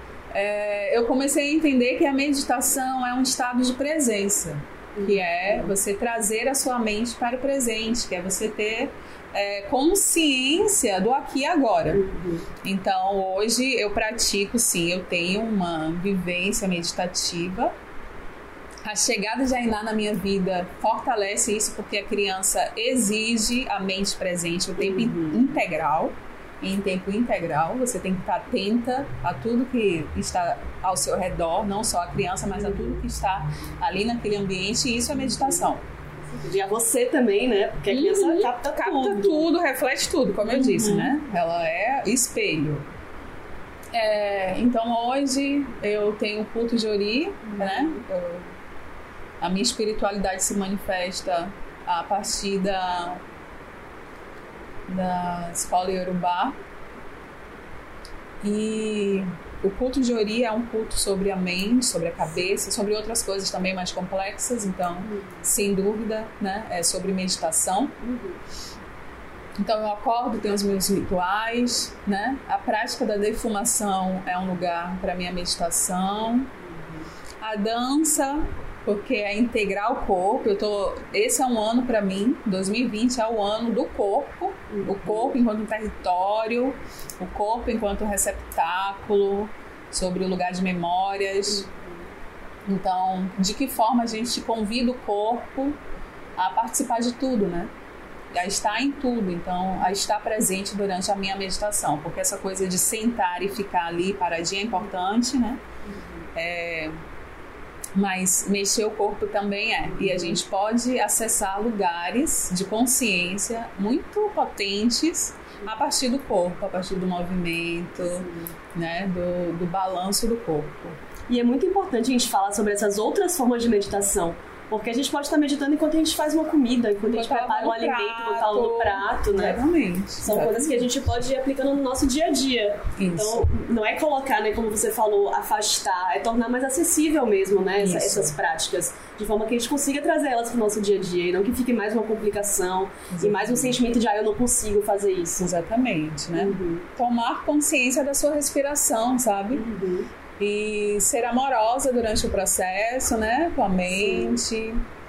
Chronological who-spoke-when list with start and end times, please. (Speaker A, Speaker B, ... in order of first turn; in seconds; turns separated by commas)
Speaker A: 0.3-12.0, Speaker B: 5.0-5.7, Speaker B: 11.9-12.5, Speaker A: 12.6-17.7, Speaker A: 18.8-35.8, Speaker B: 24.8-25.4, Speaker B: 36.3-39.5, Speaker A: 37.9-42.9, Speaker B: 40.5-41.1, Speaker A: 43.9-48.5, Speaker B: 47.5-48.0, Speaker A: 49.4-53.2, Speaker A: 54.9-56.5, Speaker A: 58.4-68.0, Speaker B: 65.0-65.4, Speaker B: 68.0-68.4, Speaker A: 69.6-76.5, Speaker B: 76.6-77.1, Speaker A: 77.4-91.7, Speaker B: 84.7-85.3, Speaker B: 91.5-92.0, Speaker A: 92.7-95.8, Speaker A: 96.4-97.7, Speaker A: 98.3-105.6, Speaker B: 105.8-106.3, Speaker A: 106.3-106.9, Speaker A: 107.9-121.0, Speaker B: 109.9-110.4, Speaker B: 118.0-118.5, Speaker B: 121.3-129.6, Speaker A: 127.1-130.9, Speaker B: 130.2-145.5, Speaker A: 133.0-133.4, Speaker A: 137.8-138.3, Speaker A: 143.1-143.8, Speaker A: 145.4-149.6, Speaker B: 146.3-146.9, Speaker B: 149.5-150.1, Speaker A: 150.4-154.8, Speaker B: 153.9-154.4